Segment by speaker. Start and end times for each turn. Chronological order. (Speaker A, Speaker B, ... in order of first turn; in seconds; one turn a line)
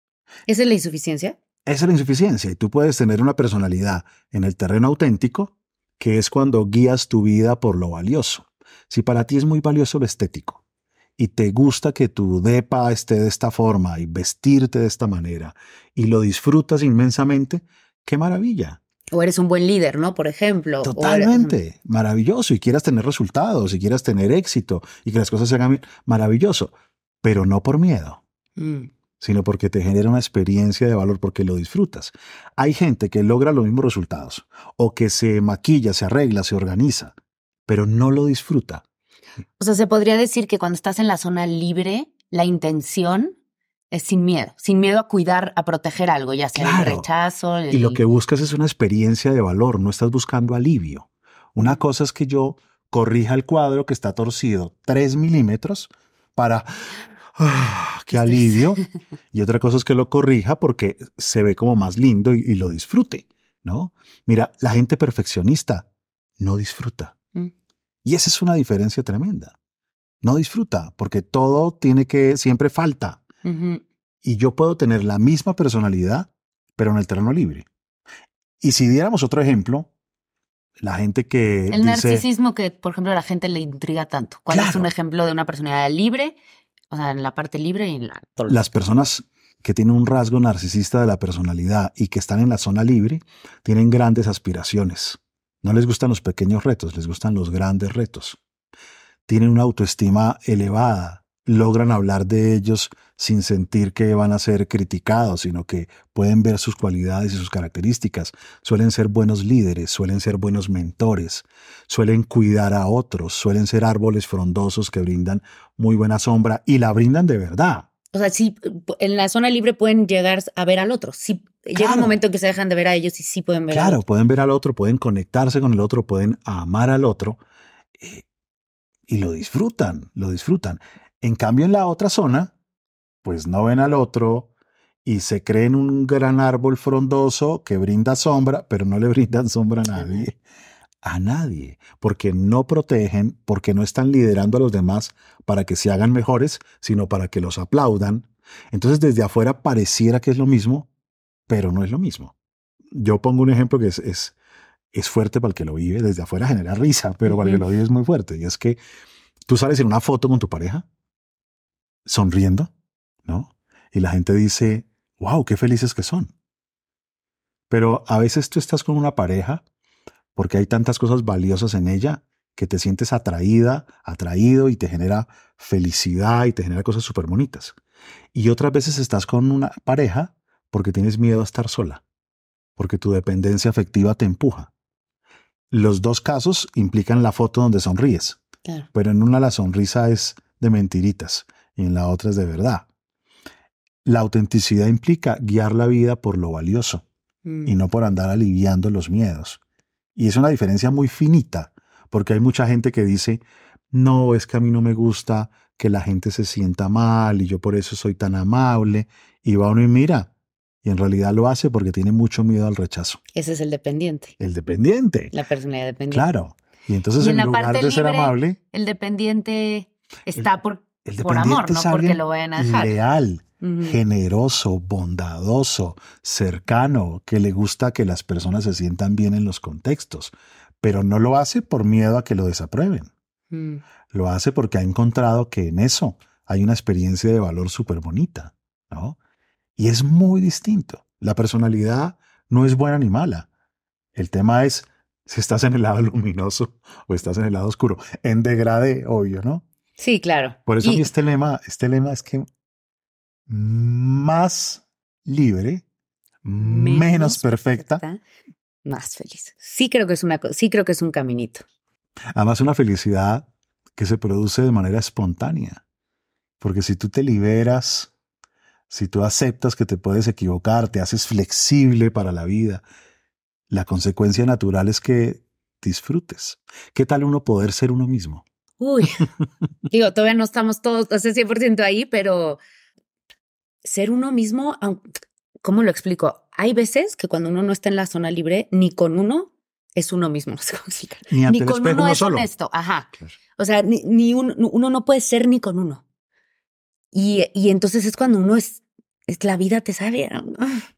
Speaker A: 0.5-1.4
Speaker B: 1.6-10.6
Speaker B: 11.2-18.8
Speaker A: 19.1-21.5
Speaker B: 20.8-28.2
Speaker A: 28.6-28.9
Speaker B: 29.2-37.1
Speaker B: 37.7-38.8
Speaker A: 39.6-43.3
Speaker A: 43.9-48.0
Speaker B: 46.5-47.1
Speaker B: 47.7-58.8
Speaker B: 59.3-65.9
Speaker B: 66.4-67.1
Speaker B: 68.0-69.5
Speaker B: 70.2-73.2
Speaker A: 73.4-73.8
Speaker B: 74.2-77.7
Speaker B: 78.6-79.9
Speaker B: 80.8-82.2
Speaker A: 81.7-86.4
Speaker B: 84.5-84.9
Speaker A: 86.9-88.7
Speaker B: 88.5-98.4
Speaker B: 99.3-117.9
Speaker A: 118.1-124.0
Speaker B: 121.8-122.2
Speaker B: 123.7-127.4
Speaker B: 128.0-128.2
Speaker B: 129.1-132.5
Speaker B: 133.2-134.5
Speaker B: 135.0-140.4
Speaker A: 139.9-140.3
Speaker B: 141.0-150.9
Speaker B: 151.5-152.3
Speaker B: 152.9-154.3
Speaker B: 154.9-158.8
Speaker A: 157.2-157.6
Speaker B: 159.4-160.8
Speaker B: 162.1-162.7
Speaker B: 163.2-166.3
Speaker B: 167.7-169.6
Speaker B: 170.3-177.8
Speaker B: 178.3-182.0
Speaker B: 182.8-184.7
Speaker B: 185.7-188.4
Speaker B: 188.9-192.8
Speaker B: 194.0-197.0
Speaker A: 197.4-197.7
Speaker B: 197.6-199.6
Speaker B: 200.2-210.3
Speaker B: 210.8-213.2
Speaker A: 213.3-214.3
Speaker B: 214.4-215.3
Speaker A: 215.3-216.3
Speaker B: 216.1-218.6
Speaker A: 217.2-222.9
Speaker B: 221.0-233.1
Speaker A: 223.6-224.0
Speaker A: 233.5-233.8
Speaker B: 234.1-239.2
Speaker B: 239.8-243.5
Speaker B: 244.1-249.6
Speaker A: 250.0-251.1
Speaker B: 250.7-252.5
Speaker B: 253.5-255.8
Speaker B: 256.4-258.0
Speaker A: 256.6-258.2
Speaker A: 258.8-261.6
Speaker B: 262.3-265.8
Speaker B: 266.6-268.1
Speaker B: 268.9-272.8
Speaker B: 273.7-278.4
Speaker A: 278.8-279.2
Speaker A: 279.9-282.6
Speaker A: 283.8-285.0
Speaker A: 285.6-296.0
Speaker B: 291.3-292.5
Speaker A: 297.1-300.8